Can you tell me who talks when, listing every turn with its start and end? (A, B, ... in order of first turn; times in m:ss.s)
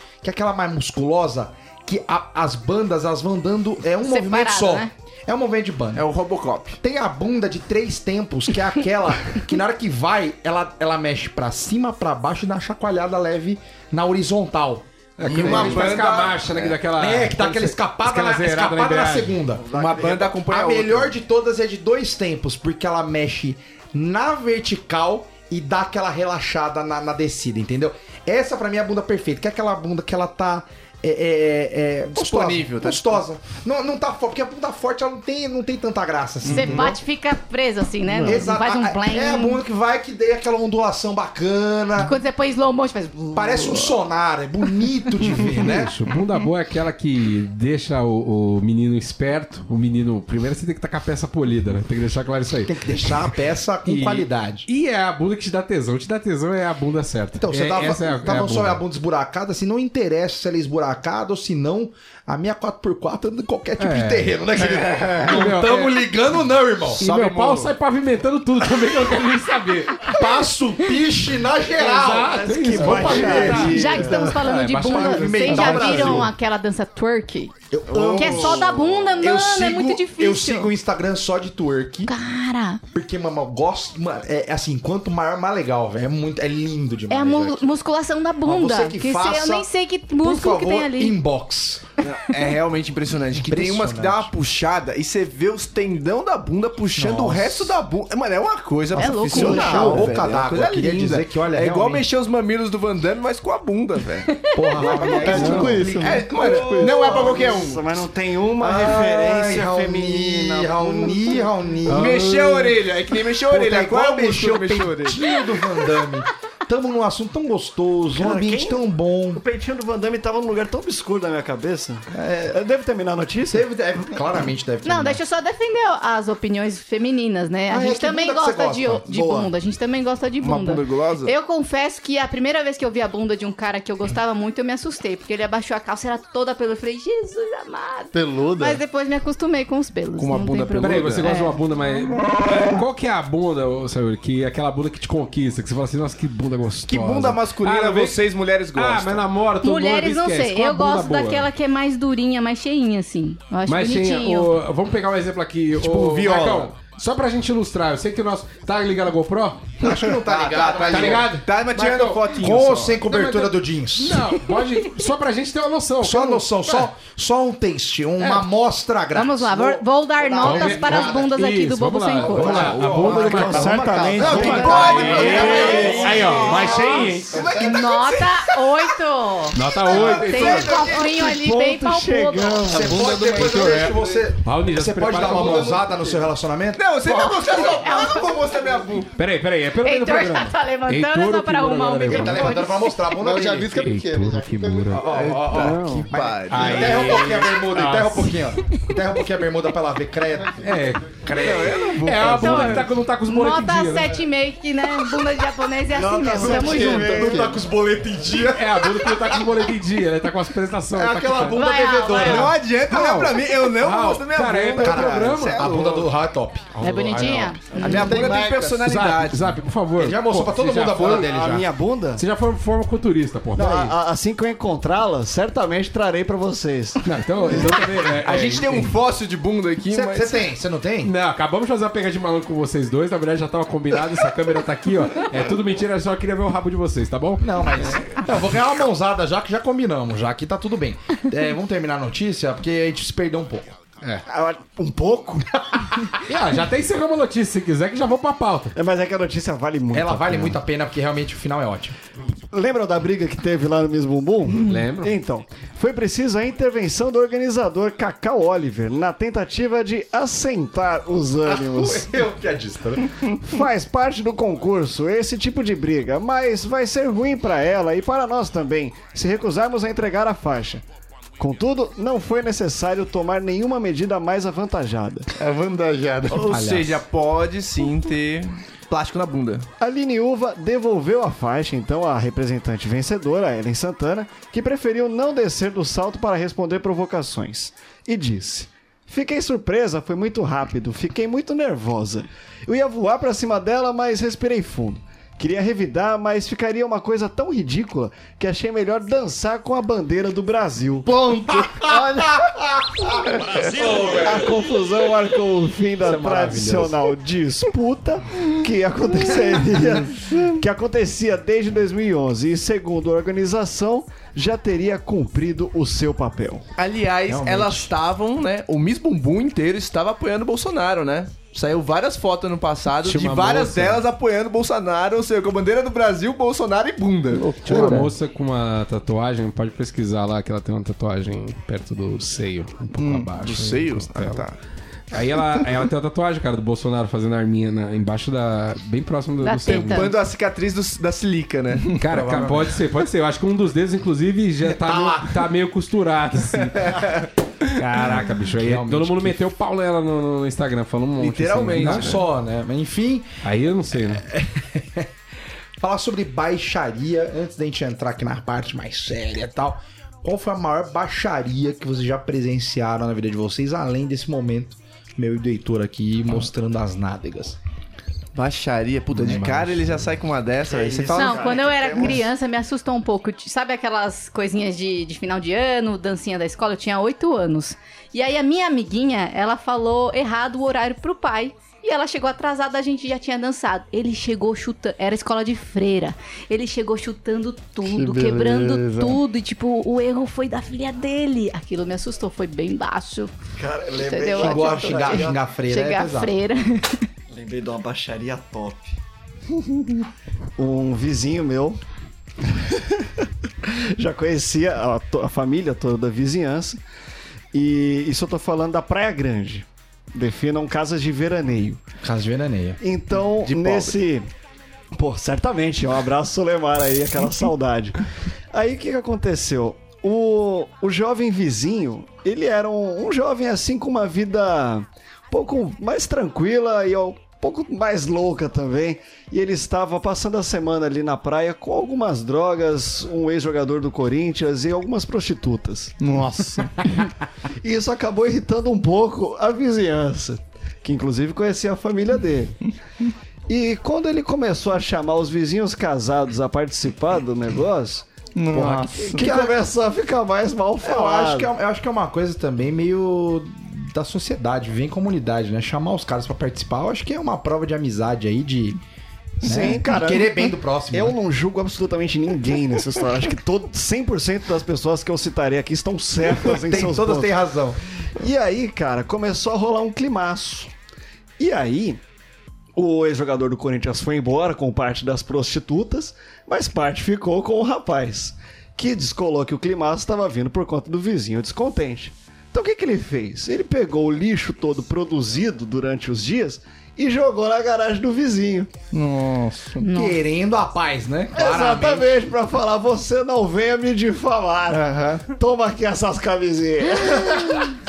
0:00.2-0:06.0 A
0:04.0-0:04.9 B
0:05.9-0:06.8 C
0:06.8-0:16.2 A
0:15.2-0:19.4 D
0:15.2-0:16.8 C
0:16.9-0:19.7 A
0:19.5-0:20.4 E
0:19.7-0:21.1 C
0:20.4-0:37.0 A
0:32.1-0:33.2 C
0:36.5-0:39.6 B
0:38.2-0:42.2 A
0:42.0-0:44.0 B
0:43.3-0:45.9 A
0:45.5-0:53.3 D
0:52.7-0:54.6 A
0:53.8-0:58.8 D
0:57.4-1:07.6 A
1:03.8-1:06.1 D
1:07.0-1:10.2 D
1:07.0-1:07.6 C
1:10.0-1:16.3 A
1:11.7-1:16.2 D
1:12.2-1:14.2 E
1:13.6-1:17.6 B
1:17.7-1:22.1 A
1:17.9-1:18.5 E
1:18.1-1:20.7 B
1:22.1-1:22.8 B
1:22.9-1:27.8 A
1:27.1-1:31.2 B
1:28.4-1:29.7 A
1:30.2-1:31.8 A
1:32.0-1:44.3 C
1:32.3-1:32.6 B
1:33.4-1:34.3 A
1:36.9-1:37.8 A
1:39.0-1:39.8 B
1:39.0-1:42.1 A
1:39.3-1:40.1 E
1:44.3-1:45.3 B
1:44.5-1:47.6 A
1:44.8-1:47.2 F
1:45.1-1:47.8 C
1:45.3-1:45.8 D
1:45.3-1:45.8 E
1:46.4-1:51.5 E
1:48.6-1:52.3 A
1:51.8-1:52.8 D
1:51.9-1:55.2 C
1:53.4-1:59.4 A
1:58.1-2:03.7 E
2:03.5-2:05.2 A
2:04.8-2:21.6 B
2:07.7-2:09.0 A
2:09.0-2:09.5 E
2:10.4-2:11.3 C
2:18.1-2:18.8 F
2:20.2-2:21.2 C
2:20.8-2:31.5 D
2:26.9-2:29.2 C
2:29.6-2:34.5 B
2:33.6-2:39.8 D
2:35.8-2:36.7 C
2:39.8-2:41.4 A
2:40.0-2:43.0 C
2:40.9-2:46.9 D
2:42.4-2:44.2 A
2:46.0-2:51.3 A
2:49.1-2:52.7 B
2:50.4-2:57.4 D
2:52.2-2:57.6 A
2:52.6-2:56.1 E
2:54.2-2:59.0 C
2:55.0-3:02.8 B
2:59.5-3:01.0 D
2:59.7-3:01.3 C
3:01.0-3:03.8 E
3:02.6-3:06.9 A
3:03.0-3:05.8 D
3:06.8-3:09.1 C
3:07.0-3:08.4 B
3:09.2-3:12.6 D
3:09.8-3:13.0 B
3:12.1-3:13.8 A
3:13.1-3:15.0 F
3:13.7-3:18.5 D
3:14.9-3:20.6 A
3:15.0-3:17.2 C
3:20.6-3:21.2 D
3:21.2-3:22.3 A
3:21.3-3:22.9 C
3:22.0-3:24.2 D
3:22.2-3:27.4 B
3:25.9-3:27.5 E
3:26.4-3:29.4 A
3:26.5-3:27.6 F
3:28.4-3:31.6 D
3:30.9-3:32.5 A
3:31.5-3:32.6 B
3:32.1-3:36.1 C
3:32.3-3:35.9 D
3:34.8-3:38.2 A
3:36.8-3:38.1 D
3:36.8-3:37.8 B
3:37.7-3:38.1 E
3:37.7-3:39.6 C
3:37.8-3:38.9 F
3:38.8-3:41.3 D
3:40.0-3:41.7 A
3:41.0-3:42.2 E
3:42.2-3:43.9 D
3:43.6-3:47.1 E
3:47.0-3:48.9 D
3:47.6-3:50.4 C
3:49.9-3:51.1 A
3:51.0-3:58.0 D
3:57.4-4:03.7 A
4:04.2-4:05.7 E
4:06.2-4:08.7 D
4:08.7-4:10.6 E
4:09.9-4:12.0 A
4:12.5-4:22.1 E
4:14.6-4:15.1 D
4:21.4-4:23.2 A
4:23.4-4:30.8 E
4:31.4-4:35.3 E
4:35.3-4:36.6 F
4:36.3-4:39.7 C
4:36.5-4:37.0 D
4:39.8-5:01.1 E
5:01.0-5:02.4 F
5:02.8-5:04.5 A
5:04.1-5:16.6 E
5:06.0-5:07.0 A
5:09.7-5:10.6 F
5:16.8-5:28.0 C
5:17.3-5:17.9 A
5:23.0-5:24.0 D
5:27.3-5:28.1 F
5:27.6-5:34.4 D
5:33.0-5:34.6 C
5:35.1-5:40.1 D
5:39.4-5:40.2 B
5:39.7-5:42.0 C
5:42.0-5:52.2 D
5:42.1-5:42.8 A
5:44.7-5:45.4 A
5:48.6-5:49.4 A
5:51.2-5:52.2 C
5:51.7-5:53.3 A
5:53.4-5:54.2 D
5:54.2-5:55.1 A
5:55.8-6:07.6 A
6:08.3-6:11.8 C
6:09.1-6:10.0 D
6:10.6-6:12.2 E
6:11.1-6:33.3 B
6:27.8-6:29.2 F
6:33.6-6:35.4 E
6:33.9-6:37.1 B
6:34.4-6:36.3 A
6:37.3-6:39.0 E
6:40.6-6:41.8 E
6:42.4-6:46.8 E
6:47.5-6:51.8 E
6:52.0-6:52.8 A
6:52.8-6:54.3 E
6:53.3-6:54.0 C
6:55.0-6:58.0 E
6:58.5-7:15.9 E
7:16.0-7:16.8 F
7:17.6-7:22.5 E
7:23.5-7:31.5 E
7:28.3-7:29.3 F
7:29.2-7:29.6 A
7:30.8-7:38.8 A
7:39.4-7:47.4 E
7:39.4-7:41.2 A
7:46.3-7:47.8 A
7:48.2-7:50.7 E
7:51.4-7:52.0 E
7:52.8-8:08.7 E
8:08.9-8:09.8 F
8:09.8-8:10.2 B
8:09.8-8:12.1 A
8:11.3-8:17.7 E
8:14.7-8:15.2 F